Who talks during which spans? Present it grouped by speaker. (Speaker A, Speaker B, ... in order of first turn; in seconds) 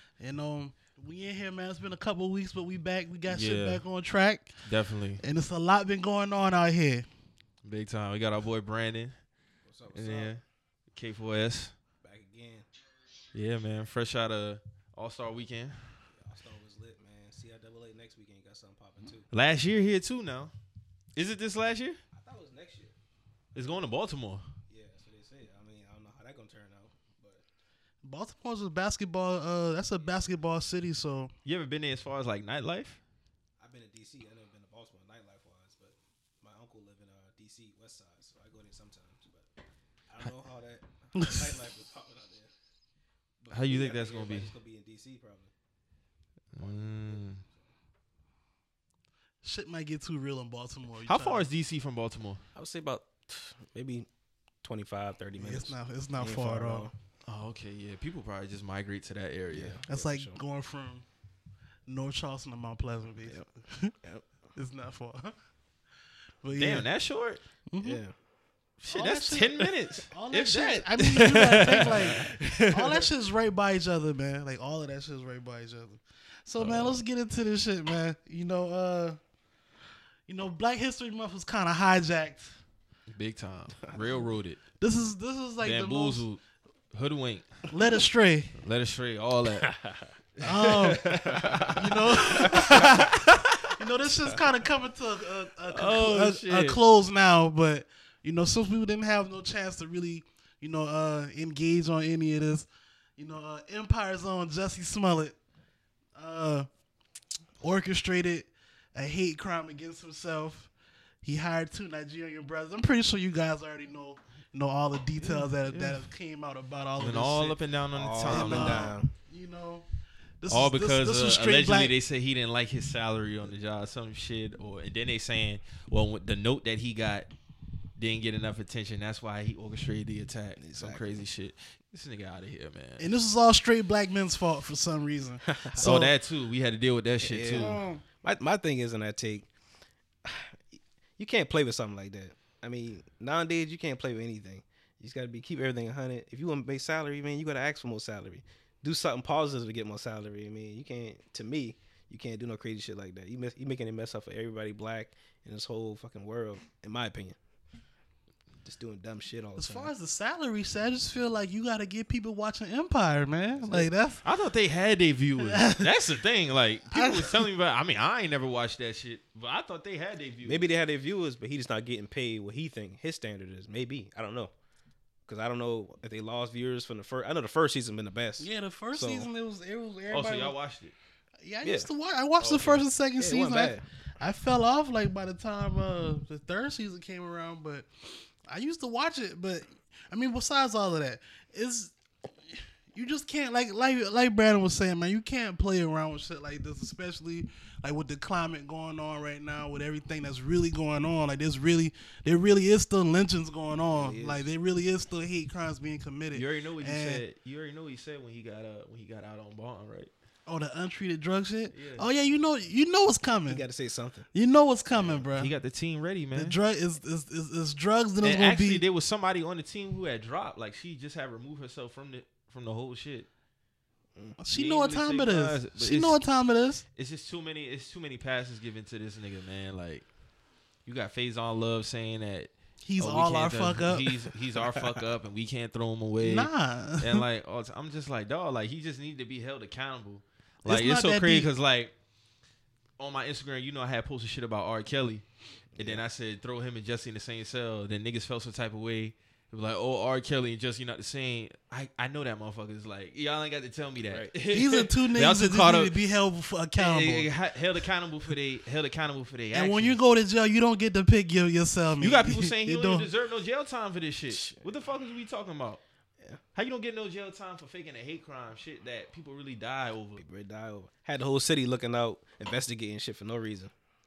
Speaker A: 0.2-4.5, 5.2-7.1, 28.0-31.3, 41.1-41.5, 49.4-51.5, 55.4-56.9, 59.9-61.0, 61.9-63.9, 64.6-65.3, 66.4-66.9, 67.7-68.0, 68.9-79.2, 80.3-82.5, 84.8-86.2, 87.7-88.5, 90.4-91.1, 91.8-105.4, 106.2-106.7, 107.6-110.7, 111.2-117.6, 118.2-119.9, 120.4-122.0, 133.0-136.1, 137.5-138.0, 159.6-164.2, 165.4-165.9, 166.9-167.4, 178.4-180.5, 181.4-187.9, 188.5-191.9, 192.9-207.2, 210.5-213.6, 214.3-215.5, 216.3-218.8, 224.4-226.8, 232.9-234.1, 236.2-237.2, 240.7-241.5, 254.5-257.3, 259.5-263.1
Speaker B: 3.3-3.8, 4.7-5.2, 7.6-9.1, 9.9-10.4, 10.9-11.7, 13.3-15.8, 19.3-20.5, 21.2-22.0, 23.6-24.4, 31.4-33.0, 43.5-44.5, 46.5-47.4, 51.0-52.4, 57.3-59.8, 66.5-67.4, 68.8-73.1, 76.6-77.0, 83.1-84.6, 85.6-86.4, 86.9-87.7, 88.6-89.8, 90.4-93.6, 95.7-96.8, 115.2-116.0, 117.0-118.9, 120.5-127.3, 128.0-133.1, 135.7-137.8, 164.2-170.7, 180.1-180.9, 182.4-182.8, 206.3-210.1, 211.7-212.1, 215.0-216.6, 218.2-223.3, 224.5-226.2, 227.0-230.1, 230.9-236.5, 237.0-241.9, 243.0-245.2, 245.8-255.9, 256.8-260.0, 262.0-265.8, 266.6-270.2
Speaker C: 9.7-10.3, 12.0-12.7, 16.2-19.3, 22.1-22.9, 24.7-27.4, 33.6-39.5, 40.1-42.5, 43.4-45.5, 46.6-47.5, 52.5-54.1, 54.6-56.9, 59.5-60.4, 67.8-68.1, 71.8-72.3, 89.6-90.1, 91.2-91.8, 92.5-93.0, 117.9-119.1, 130.6-131.2, 135.4-135.8, 137.2-139.5, 140.2-140.6, 141.2-157.4, 158.6-159.9, 163.5-163.9, 170.4-174.5, 175.3-179.3, 181.6-181.9, 183.2-183.8, 203.9-204.5, 213.5-214.3, 234.6-235.0, 245.8-246.1, 264.3-264.7, 270.2-273.7